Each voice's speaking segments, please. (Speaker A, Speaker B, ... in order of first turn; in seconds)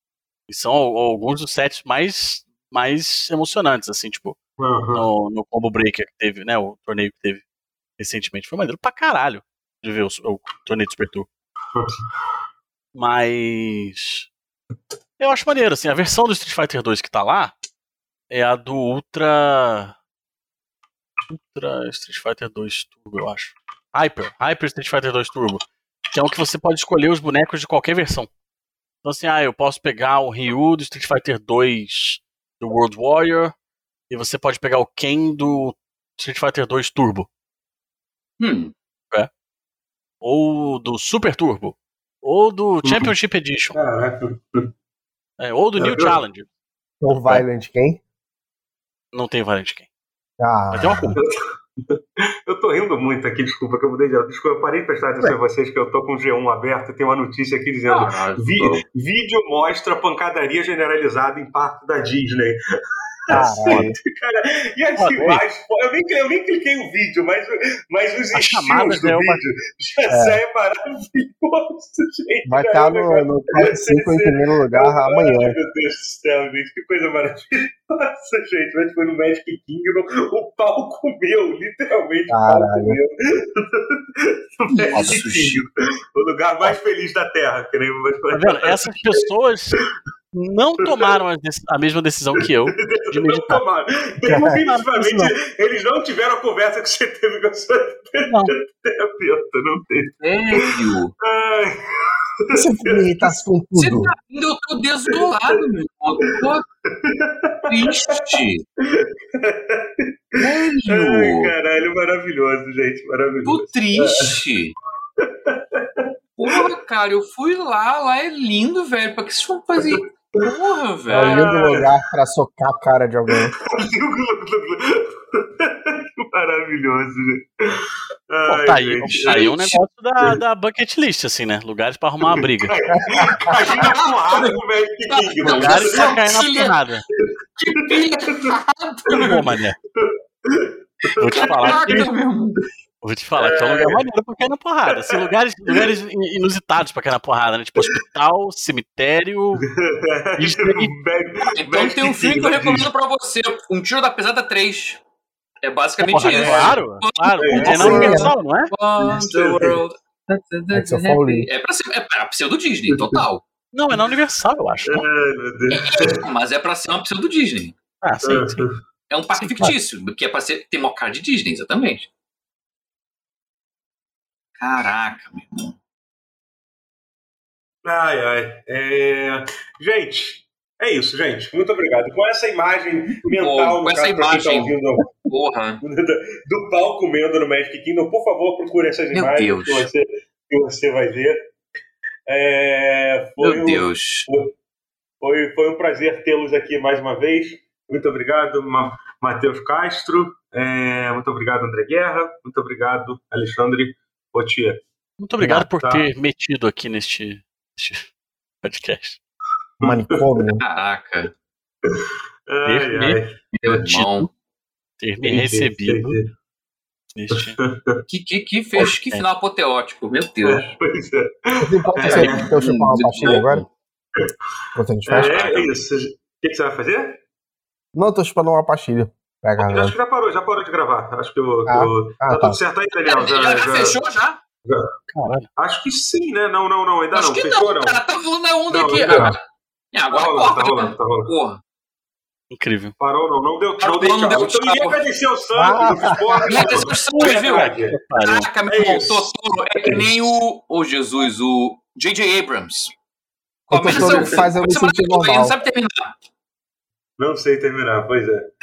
Speaker A: 0.5-4.4, 4.9-7.4, 8.0-11.3, 12.9-14.3, 15.2-17.6, 18.3-19.9, 21.3-28.3, 29.0-33.5, 34.1-37.3, 40.2-43.8, 45.4-46.5, 49.1-49.9, 50.7-51.2, 63.3-63.9, 65.0-65.4, 68.3-69.4, 84.9-85.2, 88.3-93.6, 94.3-95.3, 98.2-98.5, 128.5-132.7, 135.4-137.0, 139.2-139.8, 141.2-142.1, 143.0-149.7, 150.4-150.9, 156.0-158.7, 163.7-165.1, 168.0-168.7, 169.4-169.7, 205.2-208.1, 208.6-209.2, 212.6-214.3, 215.0-216.2, 217.1-217.6, 235.1-235.5, 242.5-242.9, 247.1-248.5
Speaker B: 4.6-5.0, 11.7-12.0, 43.7-44.7, 45.8-46.2, 51.2-62.6, 63.3-89.2, 90.8-91.2, 92.8-101.8, 102.4-103.3, 106.5-108.2, 108.8-114.4, 115.2-116.7, 119.8-120.5, 121.1-122.0, 123.3-130.4, 132.2-136.2, 138.0-138.5, 139.1-139.4, 139.9-142.1, 143.4-144.0, 144.9-145.9, 149.7-152.9, 156.2-156.8, 157.4-158.2, 159.0-159.8, 162.9-163.2, 164.8-166.2, 168.2-168.8, 177.8-185.1, 185.8-191.4, 192.3-194.5, 195.2-204.8, 205.4-206.1, 209.8-210.5, 211.8-213.5, 215.2-216.3, 217.3-218.0, 220.4-222.6, 225.0-227.2, 229.6-234.0, 234.6-234.9, 235.6-238.0, 238.7-239.4, 240.1-241.3, 243.0-248.0, 248.7-249.3, 249.8-250.4, 253.8-254.5, 257.2-258.5
Speaker C: 38.4-38.7, 57.9-58.8, 84.7-85.6, 100.2-101.1, 103.7-106.6, 107.7-108.6, 110.3-111.5, 113.4-114.7, 116.4-121.5, 129.3-129.5, 133.6-136.8, 137.6-139.3, 141.3-142.6, 151.4-155.0, 155.6-163.4, 165.7-167.7, 169.1-172.1, 174.6-175.7, 183.3-184.7, 185.3-185.8, 189.1-189.9, 193.4-194.3, 210.6-211.3, 213.5-214.3, 218.1-220.7, 222.0-223.7, 225.2-225.6, 233.1-234.4, 237.1-239.4, 239.9-241.6, 243.8-245.0, 246.4-252.9, 253.7-256.1
Speaker D: 47.0-48.0, 50.4-51.2, 63.3-64.0, 70.1-70.4, 72.4-75.6, 82.3-83.0, 94.3-94.5, 102.5-104.1, 121.1-123.5, 132.9-133.6, 157.7-158.3, 160.7-161.5, 209.8-210.6, 221.6-223.6, 224.8-225.6, 227.9-229.9, 231.7-232.6, 245.5-246.7, 253.7-255.6